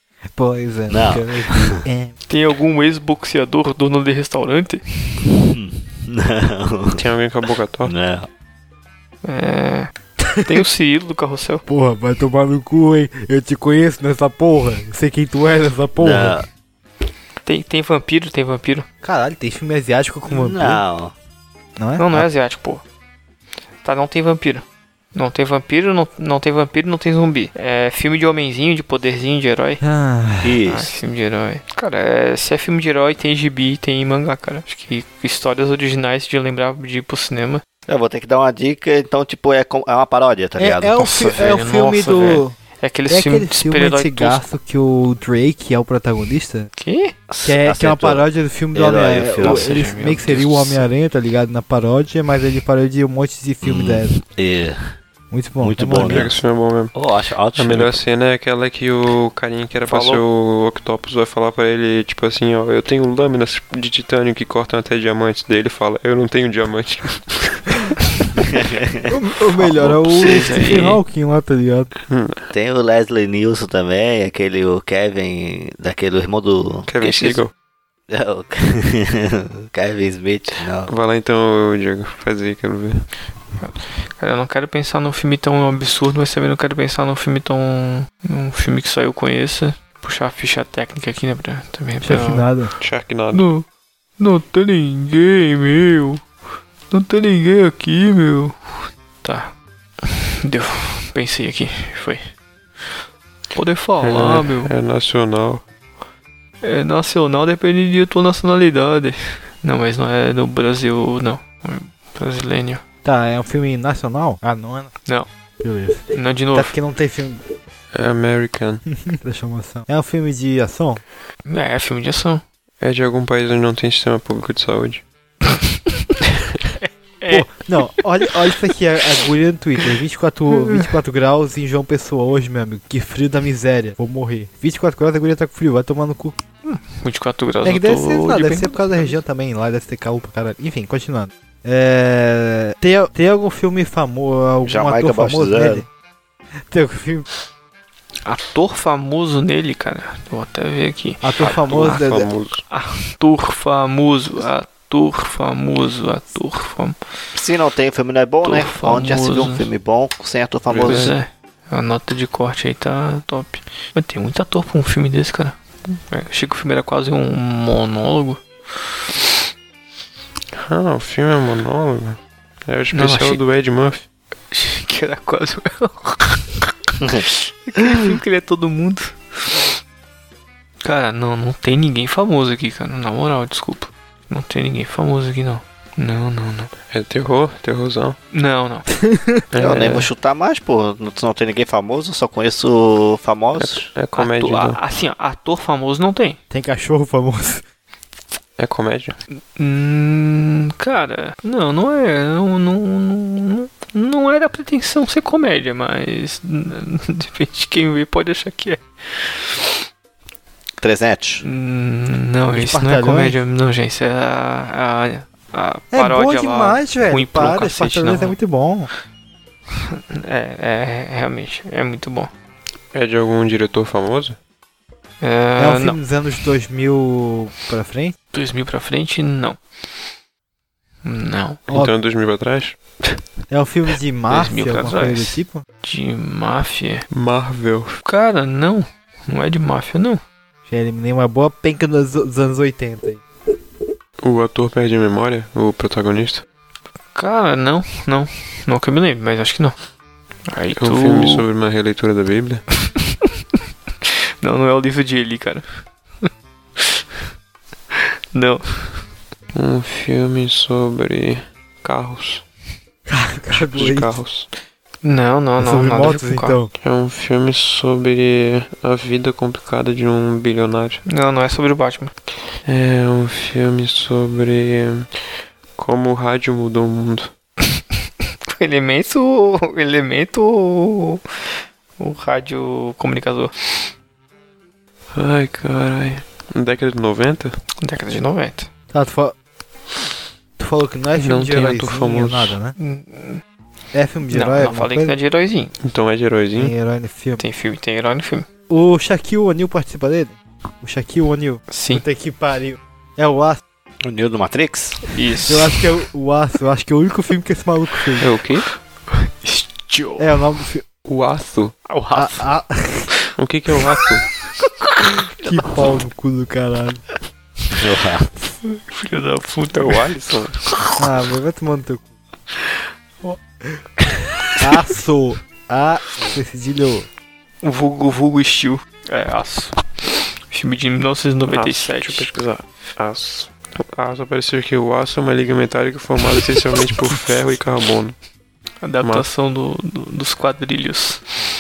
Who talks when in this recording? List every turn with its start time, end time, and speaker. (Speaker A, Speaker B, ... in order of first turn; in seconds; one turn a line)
Speaker A: 0.3-2.1
Speaker B: 0.9-1.8
Speaker C: 2.3-5.2
Speaker B: 5.2-7.0
Speaker D: 6.9-7.9
Speaker B: 7.8-8.3
Speaker C: 9.2-9.9
Speaker C: 10.4-11.7
Speaker A: 11.7-16.4
Speaker B: 16.0-16.5
Speaker C: 17.4-18.9
Speaker A: 19.0-20.8
Speaker B: 20.3-21.1
Speaker A: 21.8-22.3
Speaker C: 22.0-22.8
Speaker C: 23.8-29.8
Speaker A: 29.8-30.6
Speaker B: 30.4-30.9
Speaker C: 30.7-37.6
Speaker B: 37.9-40.9
Speaker A: 40.6-42.6
Speaker C: 41.0-44.5
Speaker A: 43.1-46.7
Speaker C: 46.8-47.1
Speaker B: 47.3-49.9
Speaker A: 47.5-54.1
Speaker C: 49.4-50.9
Speaker B: 53.6-54.8
Speaker A: 55.3-56.3
Speaker B: 55.6-56.4
Speaker D: 56.0-56.9
Speaker B: 56.9-58.0
Speaker D: 57.6-67.8
Speaker C: 59.9-60.2
Speaker B: 59.9-60.2
Speaker B: 68.4-69.1
Speaker A: 69.1-71.9
Speaker C: 69.8-71.0
Speaker D: 72.1-72.4
Speaker B: 72.5-77.4
Speaker D: 76.9-77.5
Speaker B: 78.1-80.9
Speaker D: 80.9-83.1
Speaker C: 83.6-92.5
Speaker A: 92.0-92.7
Speaker D: 92.8-93.5
Speaker C: 93.3-93.7
Speaker C: 94.2-96.2
Speaker C: 96.9-98.6
Speaker C: 99.2-102.3
Speaker C: 103.5-104.7
Speaker D: 104.0-105.6
Speaker C: 106.6-112.8
Speaker A: 113.0-114.9
Speaker A: 115.6-117.4
Speaker C: 116.1-116.7
Speaker D: 117.9-118.8
Speaker A: 119.0-121.0
Speaker C: 121.5-122.4
Speaker D: 122.8-125.0
Speaker C: 126.8-127.7
Speaker A: 127.3-136.4
Speaker C: 130.5-130.9
Speaker C: 136.6-139.2
Speaker A: 137.6-145.9
Speaker B: 144.6-145.8
Speaker A: 146.7-147.3
Speaker C: 148.3-151.5
Speaker A: 151.2-152.3
Speaker D: 151.4-152.6
Speaker C: 152.7-157.0
Speaker B: 157.3-161.2
Speaker C: 158.4-159.7
Speaker D: 160.7-161.1
Speaker C: 160.8-168.4
Speaker D: 170.6-174.1
Speaker C: 172.9-173.4
Speaker C: 174.5-179.7
Speaker B: 177.0-177.3
Speaker C: 180.8-186.7
Speaker D: 186.9-188.2
Speaker C: 188.3-188.9
Speaker A: 189.0-189.4
Speaker D: 189.5-190.1
Speaker B: 189.6-193.8
Speaker D: 193.6-194.8
Speaker C: 194.1-196.4
Speaker A: 196.5-197.6
Speaker D: 198.6-199.2
Speaker C: 199.6-209.7
Speaker B: 210.8-211.4
Speaker C: 211.4-218.4
Speaker A: 212.5-213.4
Speaker A: 215.9-218.9
Speaker C: 219.9-222.3
Speaker D: 222.9-224.4
Speaker C: 225.2-226.0
Speaker A: 225.6-228.2
Speaker C: 228.3-229.6
Speaker C: 231.1-231.6
Speaker D: 231.7-233.2
Speaker A: 233.5-235.6
Speaker C: 234.3-237.1
Speaker D: 237.1-238.0
Speaker C: 238.0-240.2
Speaker A: 240.7-243.2
Speaker D: 244.2-246.4
Speaker C: 247.2-249.8
Speaker C: 250.5-251.4
Speaker D: 250.8-252.6
Speaker C: 254.4-255.7
Speaker C: 257.9-259.1
Speaker D: 259.5-262.4
Speaker A: 263.1-264.2
Speaker D: 263.5-264.5
Speaker C: 265.0-266.6
Speaker A: 265.6-266.7
Speaker D: 266.8-271.0
Speaker C: 271.1-272.1
Speaker D: 272.6-275.1
Speaker D: 275.8-277.3
Speaker C: 278.5-281.2
Speaker C: 282.0-283.9
Speaker D: 285.1-287.6
Speaker C: 287.8-288.7
Speaker A: 288.9-289.4
Speaker A: 290.6-292.8
Speaker D: 291.2-292.6
Speaker C: 292.8-293.4
Speaker A: 293.9-295.2
Speaker C: 294.3-295.7
Speaker D: 295.8-296.7
Speaker A: 296.6-297.4
Speaker C: 297.4-298.5
Speaker A: 298.7-303.6
Speaker C: 301.7-302.0
Speaker B: 304.0-305.1
Speaker C: 305.1-305.8
Speaker A: 305.5-308.3
Speaker D: 308.2-308.7
Speaker C: 309.1-310.3
Speaker A: 310.2-310.9
Speaker D: 311.1-311.8
Speaker C: 311.9-312.5
Speaker A: 312.1-313.1
Speaker D: 313.4-314.3
Speaker C: 314.6-316.0
Speaker A: 315.4-317.0
Speaker B: 317.7-318.3
Speaker C: 318.6-320.1
Speaker D: 319.7-320.6
Speaker C: 320.8-321.0
Speaker A: 321.0-322.1
Speaker C: 324.0-324.5
Speaker A: 324.6-327.1
Speaker C: 327.6-329.8
Speaker C: 330.5-332.3
Speaker D: 331.5-338.2
Speaker C: 338.8-341.2